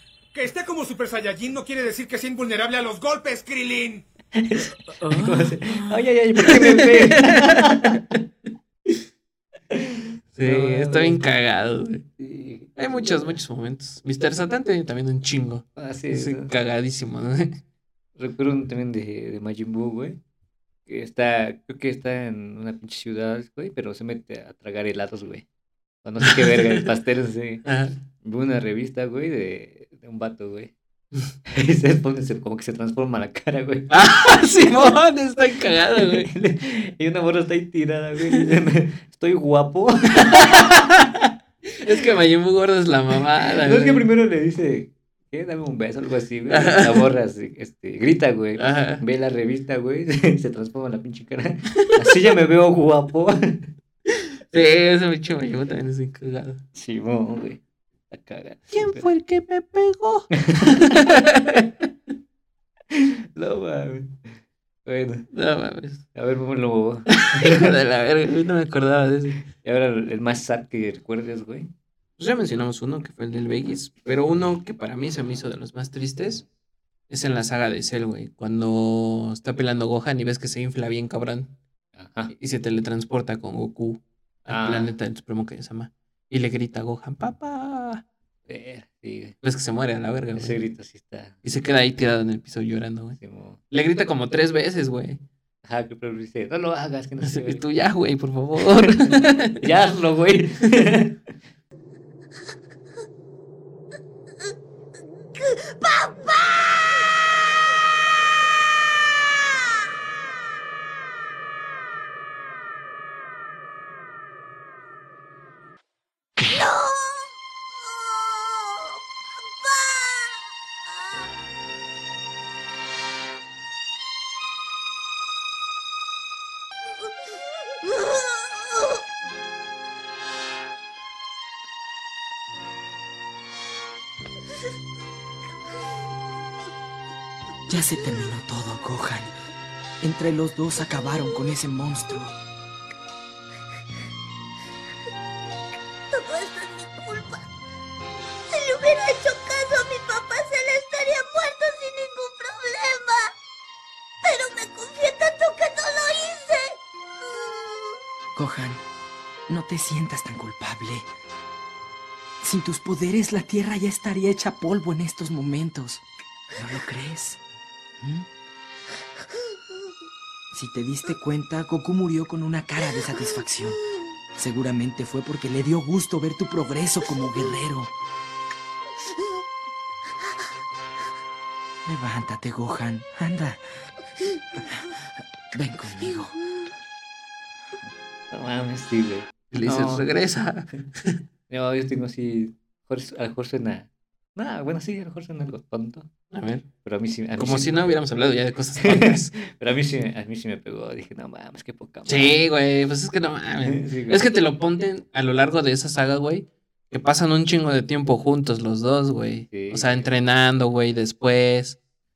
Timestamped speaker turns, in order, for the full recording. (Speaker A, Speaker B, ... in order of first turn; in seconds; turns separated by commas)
Speaker A: 0.3-4.0, Speaker B: 4.3-8.0, Speaker C: 5.1-5.6, Speaker D: 6.4-8.2, Speaker B: 9.7-11.2, Speaker D: 10.3-12.1, Speaker B: 12.2-13.4, Speaker D: 12.8-17.6, Speaker B: 15.8-16.5, Speaker B: 18.2-20.2, Speaker B: 20.9-25.4, Speaker B: 26.0-30.7, Speaker D: 26.2-26.8, Speaker D: 27.6-27.9, Speaker B: 31.5-34.8, Speaker D: 33.9-36.3, Speaker B: 35.9-41.0, Speaker D: 40.2-41.2, Speaker D: 41.8-44.1, Speaker B: 43.6-53.7, Speaker D: 46.5-47.1, Speaker D: 48.6-49.0, Speaker D: 51.8-52.2, Speaker D: 54.1-56.6, Speaker B: 56.7-59.0, Speaker D: 58.7-61.7, Speaker B: 60.4-60.9, Speaker B: 62.9-64.3, Speaker B: 64.8-65.3, Speaker D: 65.3-66.0, Speaker B: 66.1-67.7, Speaker D: 67.2-69.4, Speaker B: 69.5-71.7, Speaker D: 72.2-76.5, Speaker D: 77.1-81.5, Speaker B: 82.0-82.3, Speaker D: 82.3-88.0, Speaker B: 84.5-84.9, Speaker B: 88.5-89.3, Speaker D: 89.4-90.6, Speaker B: 90.3-91.4, Speaker D: 91.4-93.2, Speaker B: 93.2-93.6, Speaker D: 93.7-95.2, Speaker B: 95.7-97.7, Speaker D: 97.2-99.6, Speaker B: 98.8-101.3, Speaker E: 105.3-107.1, Speaker E: 116.4-120.4, Speaker E: 127.8-129.0, Speaker C: 137.7-139.3, Speaker C: 140.0-142.3, Speaker E: 146.1-147.4, Speaker E: 148.5-153.3, Speaker E: 154.2-156.8, Speaker C: 158.3-158.8, Speaker C: 159.5-161.1, Speaker C: 162.4-166.0, Speaker C: 166.6-167.4, Speaker C: 168.0-168.2, Speaker C: 170.5-173.8, Speaker C: 174.4-177.9, Speaker C: 181.8-183.6, Speaker C: 185.5-186.3, Speaker B: 188.3-190.1, Speaker D: 189.5-191.2, Speaker B: 191.5-196.1, Speaker D: 196.3-196.7, Speaker B: 196.8-197.9, Speaker D: 197.3-199.3, Speaker B: 198.8-202.4, Speaker D: 202.1-211.8, Speaker B: 203.6-204.2, Speaker B: 209.5-210.1